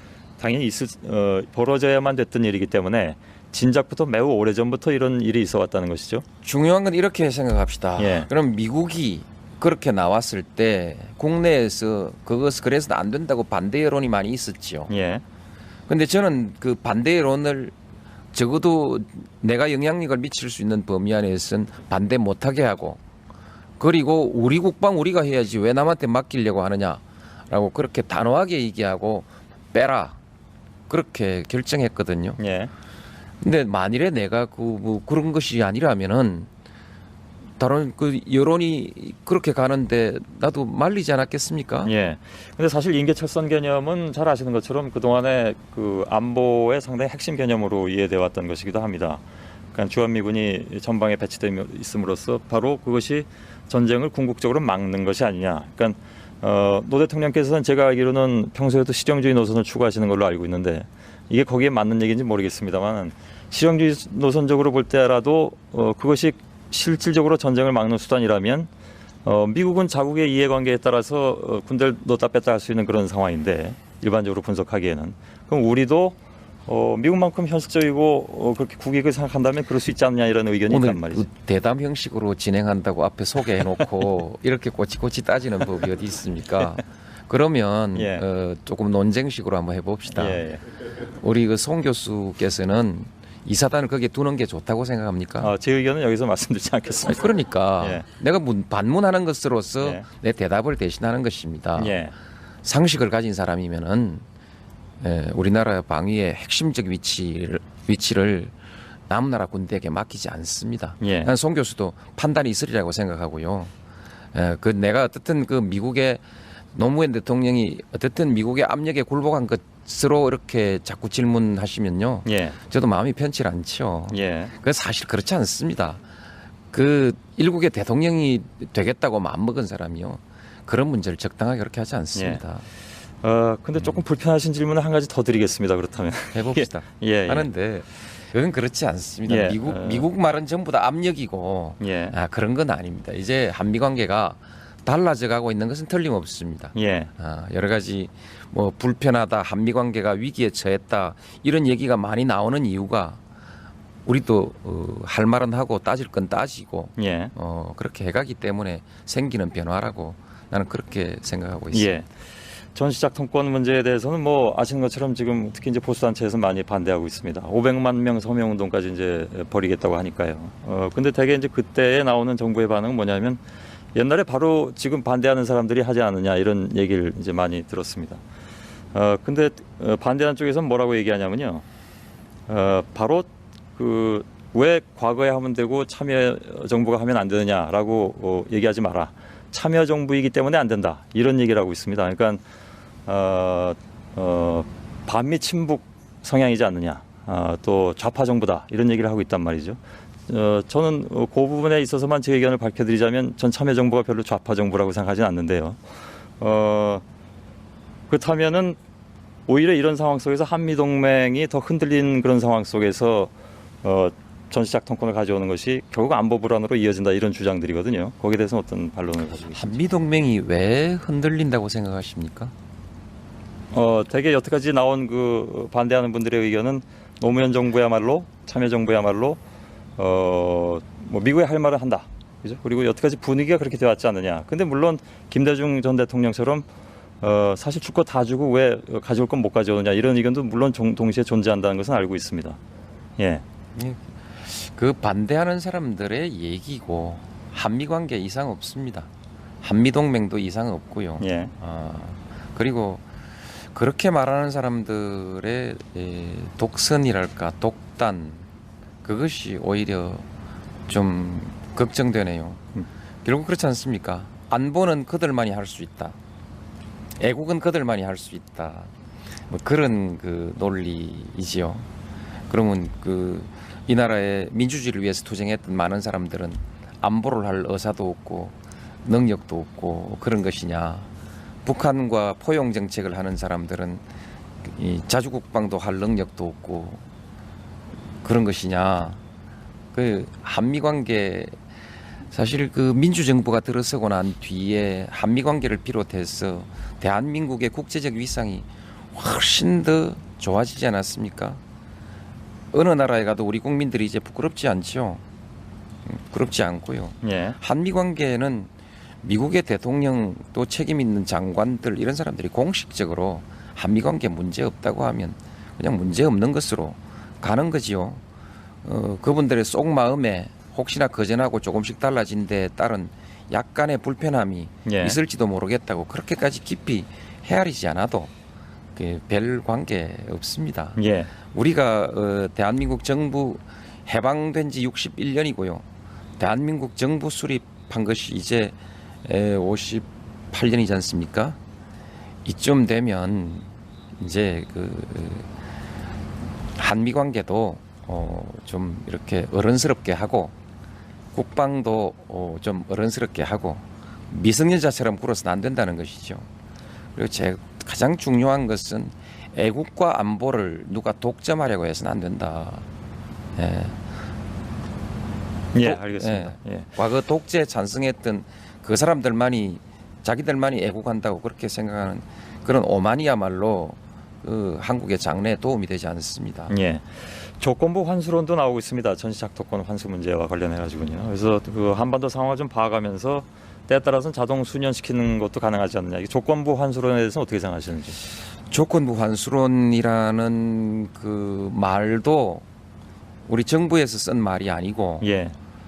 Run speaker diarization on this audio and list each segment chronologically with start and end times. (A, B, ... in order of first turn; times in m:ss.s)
0:00.4-0:06.2 A
0:06.4-0:14.9 B
0:08.0-0:08.3 A
0:14.9-0:15.2 A
0:15.9-0:17.8 B
0:18.3-0:23.0 B
0:23.8-0:30.2 B
0:30.9-0:32.4 B
0:32.4-0:32.7 A
0:33.4-0:36.5 B
0:37.6-0:41.9 B
0:41.8-0:49.2 A
0:49.7-1:08.7 A
1:09.2-1:21.3 A
1:20.7-1:30.4 B
1:28.0-1:28.2 A
1:30.1-1:30.6 A
1:31.0-1:35.5 B
1:35.4-1:38.1 A
1:37.1-1:42.0 B
1:41.8-1:42.1 A
1:42.6-1:44.2 B
1:45.0-1:48.6 B
1:49.1-1:53.7 B
1:51.0-1:51.3 A
1:54.3-1:56.2 B
1:56.7-2:06.0 B
2:02.3-2:02.6 A
2:04.1-2:04.5 A
2:06.7-2:12.7 B
2:12.2-2:12.4 A
2:13.2-2:17.5 A
2:16.3-2:33.2 B
2:19.3-2:20.1 A
2:21.8-2:22.2 A
2:26.8-2:27.1 A
2:34.1-2:41.9 B
2:37.0-2:37.3 A
2:41.7-2:42.1 A
2:42.7-2:53.4 A
2:53.9-2:58.2 A
2:58.9-3:01.6 A
3:02.5-3:12.4 A
3:13.1-3:25.8 A
3:26.4-3:27.0 A
3:28.1-3:28.8 A
3:29.5-3:33.3 A
3:33.8-3:39.8 A
3:39.6-3:42.5 B
3:43.7-3:49.4 A
3:50.0-3:56.7 A
3:57.2-4:02.6 A
4:03.2-4:03.4 A
4:03.8-4:09.1 B
4:09.6-4:18.5 B
4:11.2-4:11.5 A
4:19.0-4:20.3 B
4:20.9-4:26.2 B
4:27.2-4:28.9 B
4:29.5-4:31.9 B
4:32.5-4:41.1 B
4:41.6-4:44.0 B
4:44.6-4:47.0 B
4:48.2-4:49.2 B
4:49.9-4:51.6 B
4:52.3-5:01.6 B
5:02.7-5:05.2 B
5:06.1-5:08.7 B
5:07.2-5:07.6 A
5:09.2-5:18.2 B
5:18.8-5:28.3 B
5:24.9-5:25.2 A
5:29.0-5:31.0 B
5:31.0-5:31.3 A
5:31.5-5:35.8 B
5:36.4-5:41.6 B
5:42.4-5:45.5 B
5:46.8-5:50.6 B
5:51.3-5:56.5 B
5:57.2-6:02.9 B
6:03.6-6:04.1 B
6:05.7-6:06.9 A
6:05.8-6:16.8 B
6:16.7-6:28.2 A
6:28.7-6:32.6 B
6:33.5-6:35.3 B
6:35.2-6:35.6 A